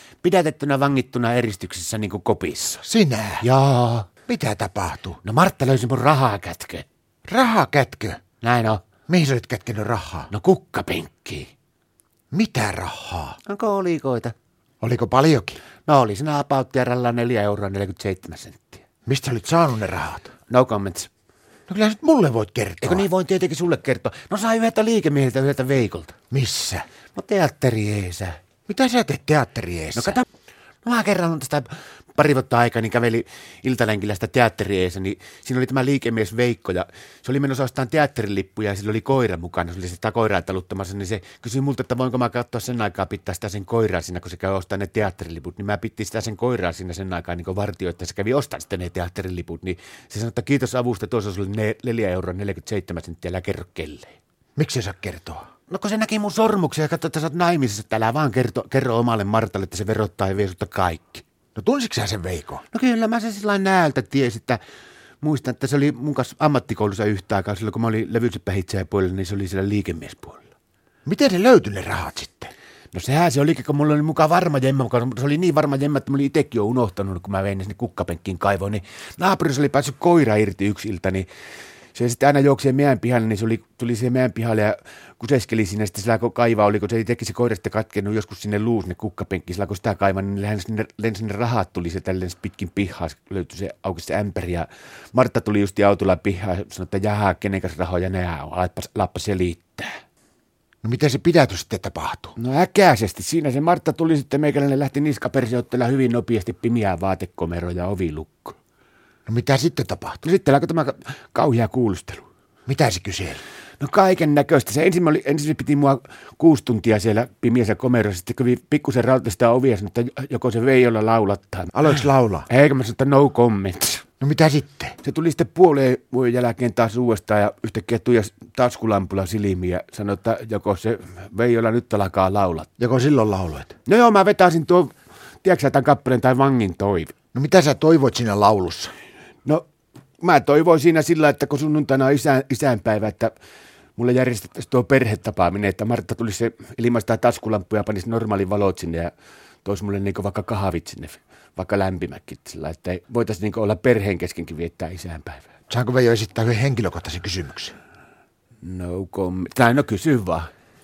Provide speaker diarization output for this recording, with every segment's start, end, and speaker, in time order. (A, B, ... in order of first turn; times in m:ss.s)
0:00.2-0:02.8 A
0:02.8-0:03.4 B
0:03.4-0:04.1 A
0:04.3-0:05.2 B
0:05.2-0:06.8 A
0:07.3-0:08.2 B
0:08.4-0:08.8 A
0:09.1-0:10.3 B
0:10.3-0:11.5 A
0:12.3-0:13.4 B
0:13.4-0:14.3 A
0:14.8-0:15.6 B
0:15.8-0:18.8 A
0:19.0-0:20.3 B
0:20.5-0:21.1 A
0:21.7-0:23.1 B
0:22.8-0:26.2 A
0:26.3-0:26.9 B
0:27.1-0:28.4 A
0:28.7-0:30.2 B
0:29.9-0:30.2 A
0:30.8-0:54.2 A
0:54.6-0:55.5 B
0:55.7-1:01.2 A
1:01.5-1:02.6 B
1:02.7-1:04.6 A
1:05.2-1:10.4 A
1:11.0-1:12.5 B
1:12.9-1:21.3 A
1:21.9-1:40.0 A
1:40.8-1:42.3 B
1:42.4-1:48.6 A
1:49.3-1:50.2 B
1:50.2-1:52.2 A
1:52.7-1:53.4 B
1:53.8-2:04.0 A
2:01.7-2:02.5 B
2:04.2-2:05.0 B
2:05.0-2:12.7 A
2:12.8-2:13.7 B
2:13.8-2:17.1 A
2:17.3-2:18.9 B
2:20.2-2:23.3 A
2:24.0-2:29.1 A
2:29.6-2:35.5 A
2:35.7-2:37.8 B
2:38.6-2:40.5 A